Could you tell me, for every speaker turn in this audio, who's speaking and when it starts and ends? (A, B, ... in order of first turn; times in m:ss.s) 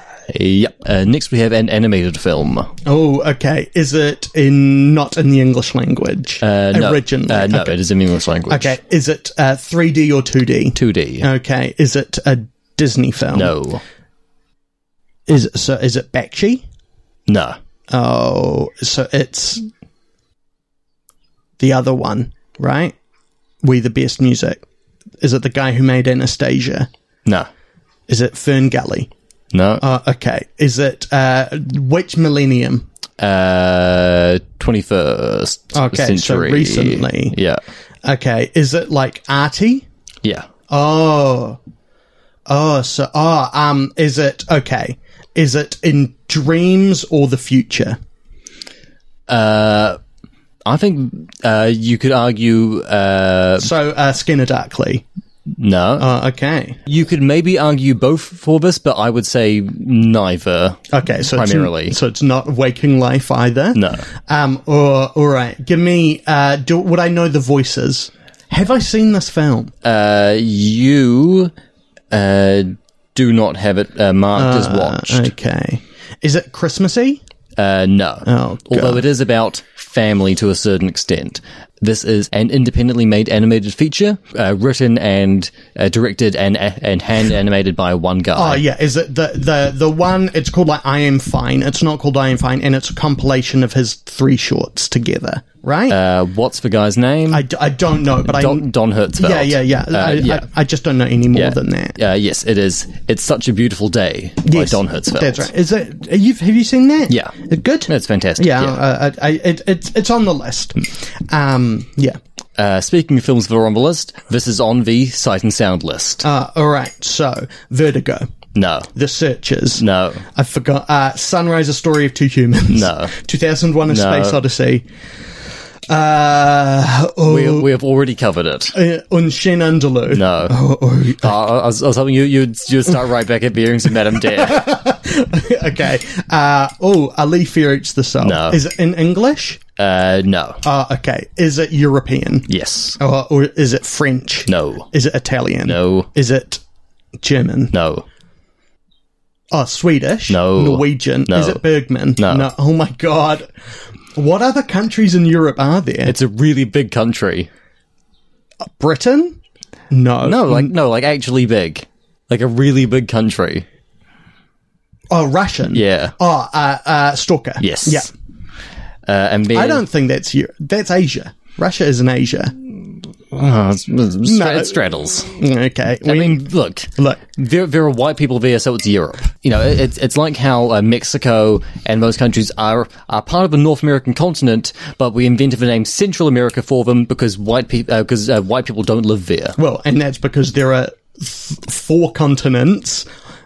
0:00.3-0:02.7 A
0:02.8-0:07.8 B
0:06.4-0:08.8 A
0:08.5-0:13.6 B
0:10.8-0:11.3 A
0:13.3-0:13.8 A
0:15.3-0:16.6 B
0:17.3-0:17.6 A
0:17.9-0:19.7 B
0:21.6-0:23.0 B
0:23.6-0:24.6 B
0:25.2-0:26.9 B
0:28.1-0:29.1 B
0:29.5-0:29.8 A
0:29.8-0:32.9 B
0:33.2-0:37.6 A
0:35.7-0:37.4 B
0:38.0-0:39.9 B
0:40.7-0:41.6 B
0:42.5-0:48.0 B
0:49.3-0:50.0 A
0:50.6-0:53.7 A
0:53.6-0:55.0 B
0:55.6-0:56.1 A
0:56.0-0:56.8 B
0:56.9-1:02.0 A
1:00.9-1:09.7 B
1:03.8-1:04.0 A
1:09.8-1:11.5 A
1:12.1-1:15.3 A
1:14.4-1:17.2 B
1:17.6-1:28.6 A
1:18.3-1:19.0 B
1:28.4-1:36.0 B
1:35.9-1:37.4 A
1:37.3-1:38.7 B
1:38.2-1:40.5 A
1:39.2-1:42.0 B
1:41.3-1:45.5 A
1:44.5-1:52.2 B
1:47.9-1:48.8 A
1:52.6-1:56.3 A
1:56.2-1:58.3 B
1:58.6-1:58.9 A
1:59.0-2:04.9 B
1:59.8-2:00.2 A
2:02.7-2:03.1 A
2:03.9-2:04.4 A
2:05.9-2:07.7 B
2:07.3-2:08.8 A
2:08.7-2:11.4 B
2:10.1-2:10.6 A
2:11.2-2:14.7 A
2:14.2-2:19.6 B
2:18.2-2:18.6 A
2:19.8-2:20.6 A
2:20.6-2:26.6 B
2:22.5-2:23.0 A
2:24.5-2:24.9 A
2:25.7-2:26.1 A
2:27.2-2:27.7 B
2:27.7-2:28.0 A
2:29.5-2:33.5 B
2:30.3-2:31.6 A
2:32.2-2:32.5 A
2:34.2-2:36.2 B
2:36.1-2:37.5 A
2:38.8-2:39.4 B
2:39.9-2:40.7 B
2:40.2-2:43.6 A
2:45.1-2:48.1 B
2:45.7-2:46.1 A
2:47.6-2:48.1 A
2:49.1-2:49.8 A
2:49.5-2:52.6 B
2:53.3-2:55.3 A
2:54.2-2:54.8 B
2:55.3-2:56.4 B
2:56.0-3:09.6 A
3:09.6-3:13.1 B